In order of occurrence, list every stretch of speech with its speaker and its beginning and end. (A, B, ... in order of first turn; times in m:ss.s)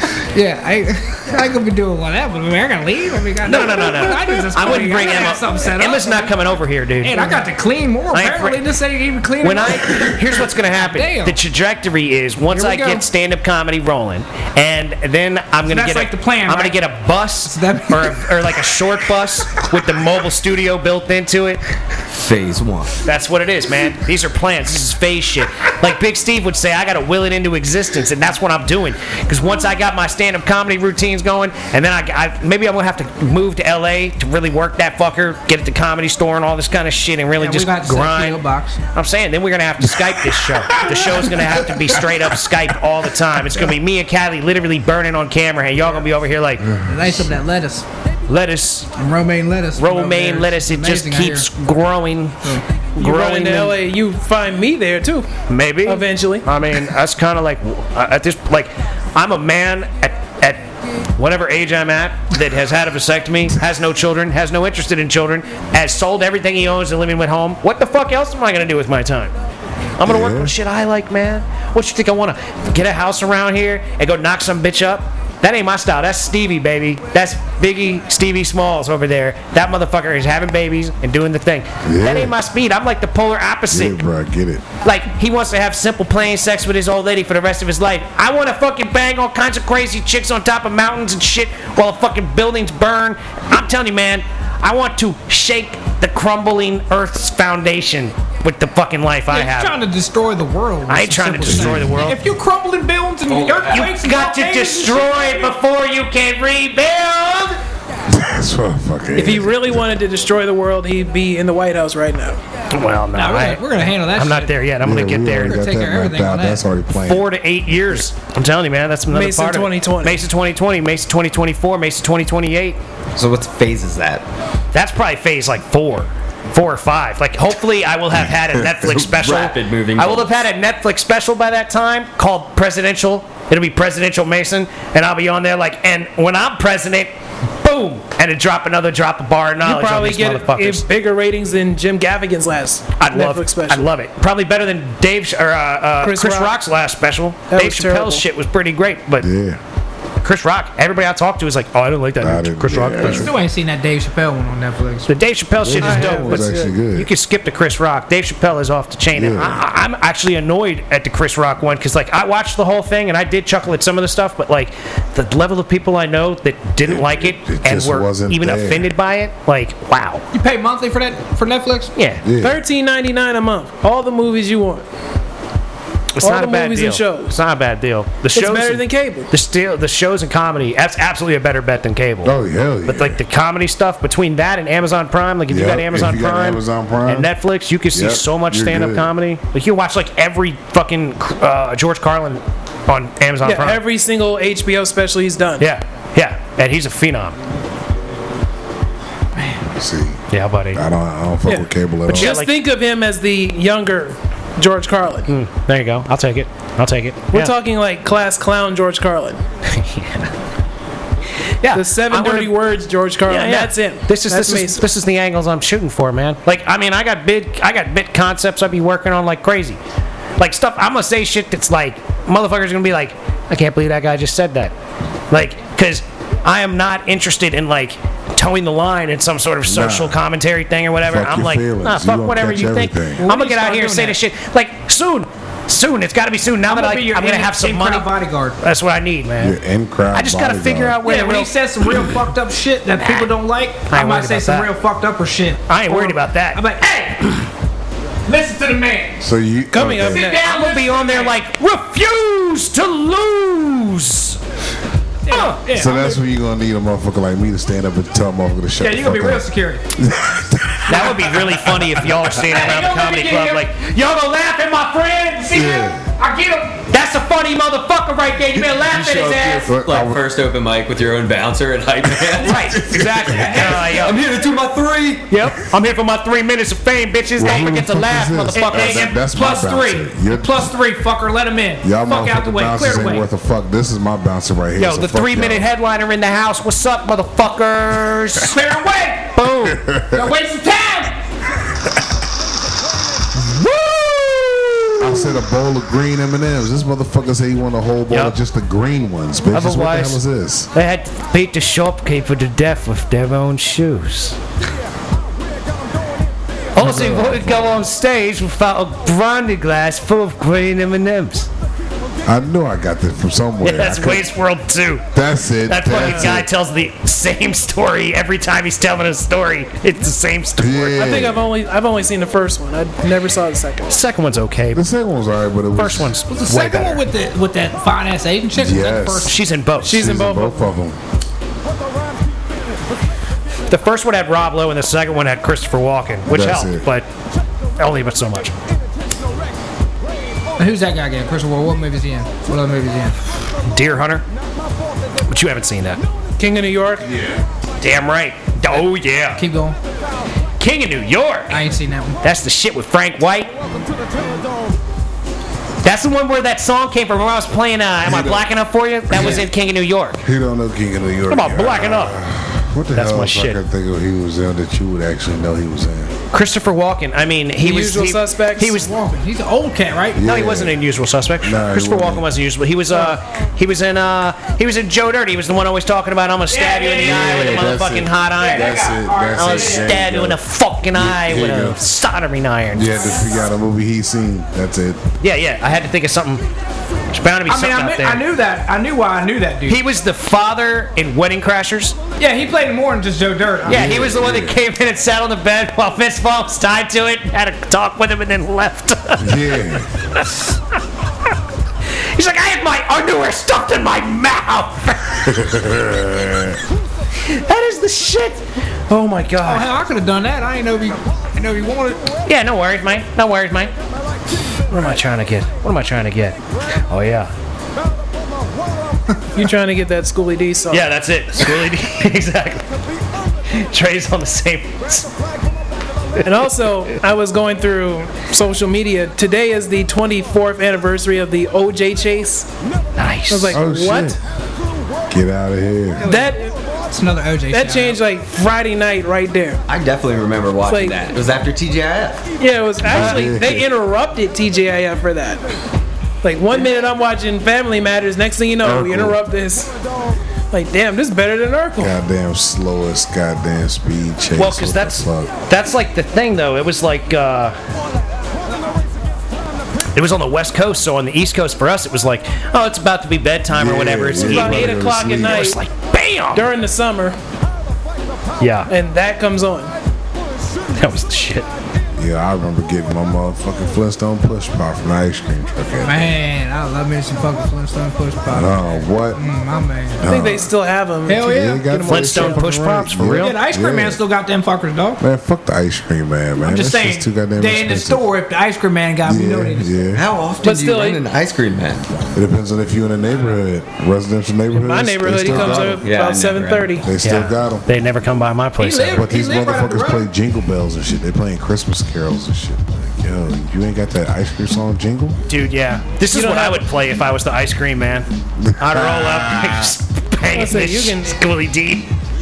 0:00.3-0:06.5 A
0:03.4-0:07.5 B
0:07.0-0:11.4 A
0:08.1-0:08.6 B
0:09.4-0:21.6 B
0:12.5-0:13.1 A
0:15.7-0:16.8 A
0:17.4-0:18.4 A
0:22.2-0:23.0 C
0:23.0-0:38.4 B
0:37.4-0:38.8 A
0:38.9-0:46.7 B
0:46.7-0:47.1 D
0:46.7-0:47.8 A
0:48.3-0:48.9 B
0:49.0-0:51.5 A
0:49.8-0:53.8 B
0:53.0-0:55.3 E
0:55.5-1:09.3 B
0:55.8-0:56.5 E
1:10.0-1:24.0 B
1:10.0-1:10.5 D
1:21.8-1:22.4 D
1:23.7-1:24.6 D
1:24.8-1:39.8 B
1:39.3-1:45.6 A
1:40.9-1:42.2 B
1:41.4-1:42.0 D
1:43.3-1:43.9 C
1:43.7-1:47.6 B
1:48.1-1:49.9 D
1:49.2-1:52.4 E
1:52.7-1:55.6 B
1:53.1-1:54.6 A
1:54.8-1:57.3 D
1:55.4-1:56.6 A
1:57.0-2:02.8 B
1:59.1-2:00.2 E
2:03.2-2:04.2 C
2:04.7-2:20.8 B
2:08.5-2:08.9 D
2:09.1-2:10.4 C
2:19.6-2:23.9 E
2:23.0-2:29.3 B
2:26.0-2:26.6 E
2:27.5-2:28.2 E
2:29.2-2:29.6 D
2:30.2-2:33.3 B
2:32.2-2:33.4 D
2:33.0-2:35.1 A
2:35.1-2:50.2 B
2:35.6-2:37.1 D
2:35.8-2:36.7 E
2:39.1-2:39.6 D
2:46.8-2:48.9 D
2:50.3-2:51.9 A
2:52.0-2:52.2 B
2:52.2-2:52.6 D
2:52.4-2:54.8 E
2:56.2-3:13.8 B
2:56.2-2:57.3 E
2:58.4-2:59.3 E
3:02.2-3:03.2 D
3:05.5-3:07.3 D
3:07.9-3:09.1 D
3:13.4-3:15.7 E
3:15.6-3:17.4 B
3:19.6-3:20.2 D
3:20.3-3:20.8 B
3:20.7-3:22.4 D
3:21.5-3:25.3 E
3:22.1-3:22.5 B
3:25.3-3:27.5 B
3:27.3-3:29.4 E
3:29.7-3:30.3 B
3:31.6-3:32.6 B
3:31.7-3:34.9 E
3:33.3-3:39.8 B
3:40.4-3:44.7 B
3:45.3-3:58.1 B
3:49.6-3:50.2 D
3:51.1-3:53.2 D
3:53.2-3:54.2 A
3:56.7-3:58.6 A
3:58.6-3:59.6 B
3:59.4-4:01.0 D
4:00.1-4:01.5 B
4:01.0-4:07.5 A
4:03.0-4:03.3 B
4:03.9-4:04.7 B
4:05.7-4:06.6 B
4:08.3-4:09.2 A
4:09.2-4:10.3 D
4:09.7-4:10.5 E
4:10.1-4:11.4 A
4:10.3-4:14.4 B
4:15.3-4:16.2 A
4:15.3-4:15.6 B
4:15.7-4:21.5 D
4:18.8-4:19.8 A
4:20.9-4:25.6 B
4:22.4-4:23.7 A
4:25.4-4:26.9 A
4:25.5-4:26.0 D
4:26.9-4:29.6 B
4:28.6-4:35.3 C
4:29.6-4:30.2 D
4:32.4-4:34.2 B
4:33.2-4:34.0 A
4:35.3-4:39.1 B
4:37.4-4:40.7 D
4:38.6-4:43.3 A
4:41.8-4:45.7 D
4:44.8-4:48.6 B
4:48.4-4:49.3 A
4:49.3-4:49.8 B
4:49.7-4:50.3 D
4:50.0-4:51.2 A
4:53.5-4:55.3 B
4:55.0-5:00.7 D
4:58.1-4:58.4 B
4:59.5-5:00.2 B
5:00.7-5:04.4 B
5:06.8-5:11.5 B
5:06.8-5:07.8 D
5:12.2-5:14.3 D
5:13.6-5:15.1 B
5:15.1-5:16.5 D
5:15.7-5:21.1 B
5:20.6-5:21.5 D
5:20.9-5:24.0 E
5:23.9-5:24.8 B
5:24.7-5:26.2 D
5:25.8-5:27.1 B
5:26.3-5:29.4 A
5:28.5-5:31.0 D
5:29.2-5:30.0 B
5:29.8-5:30.7 E
5:33.7-5:37.1 B
5:36.3-5:36.9 D
5:37.8-5:38.6 B
5:40.6-5:43.2 A
5:43.7-5:44.2 B
5:45.3-5:46.0 B
5:46.4-5:47.1 E
5:47.0-5:47.4 D
5:47.8-5:49.4 B
5:49.4-5:49.8 A
5:50.6-5:51.6 B
5:51.5-5:52.2 A
5:52.2-5:53.5 B
5:55.8-6:00.2 B
5:58.0-5:58.5 D
5:59.1-5:59.5 D
6:00.2-6:06.2 D
6:01.3-6:02.2 B
6:02.9-6:03.6 B
6:06.3-6:08.9 B
6:07.6-6:08.8 E
6:08.8-6:10.2 A
6:10.1-6:10.8 D
6:10.2-6:18.8 B
6:11.4-6:12.3 D
6:16.5-6:17.7 A
6:17.0-6:20.4 D
6:18.4-6:20.0 A
6:19.4-6:23.1 B
6:20.9-6:21.8 D
6:22.7-6:25.0 D
6:25.2-6:26.4 B
6:27.1-6:28.2 B
6:27.5-6:29.8 A
6:29.7-6:32.0 B
6:32.2-6:34.0 A
6:33.6-6:34.6 D
6:33.7-6:39.6 B
6:39.2-6:39.9 D
6:40.1-6:40.8 B
6:42.1-6:45.4 B
6:45.3-6:46.6 D
6:47.2-6:49.6 B
6:48.9-6:49.6 E
6:49.4-6:52.1 A
6:52.3-6:53.7 B
6:54.7-6:56.4 B
6:54.7-6:55.0 E
6:56.9-6:57.3 B
6:59.4-7:00.9 E
7:00.7-7:02.6 B
7:03.5-7:05.1 B
7:06.2-7:12.5 E
7:13.0-7:13.6 B
7:13.3-7:14.2 E
7:13.5-7:14.2 D
7:15.1-7:16.0 D
7:16.0-7:16.4 A
7:16.0-7:16.5 E
7:16.9-7:18.0 A
7:17.5-7:19.6 E
7:19.7-7:22.2 C
7:20.7-7:21.2 E
7:22.4-7:25.4 E
7:22.8-7:23.7 D
7:26.2-7:29.7 E
7:28.6-7:29.2 D
7:30.5-7:31.9 E
7:31.8-7:35.3 D
7:34.4-7:37.6 B
7:40.0-7:46.5 B
7:43.5-7:45.6 D
7:44.2-7:45.6 E
7:46.3-7:47.2 E
7:48.4-7:48.7 B
7:48.7-7:49.7 E
7:50.7-7:51.5 B
7:52.0-7:56.2 D
7:55.8-8:00.0 A
7:58.3-7:59.2 D
8:00.0-8:00.5 D
8:00.0-8:02.4 E
8:01.1-8:01.9 A
8:01.2-8:04.0 D
8:01.9-8:03.4 B
8:03.2-8:05.0 A
8:05.0-8:08.1 D
8:06.4-8:09.7 A
8:09.0-8:10.0 D
8:09.9-8:12.1 C
8:10.4-8:11.1 E
8:12.1-8:15.9 D
8:14.5-8:16.9 E
8:15.8-8:16.8 C
8:16.8-8:17.7 D
8:17.0-8:19.0 B
8:18.6-8:20.1 A
8:18.9-8:25.2 D
8:25.3-8:28.1 B
8:26.1-8:26.6 E
8:28.4-8:29.8 D
8:28.6-8:31.9 B
8:30.3-8:31.2 E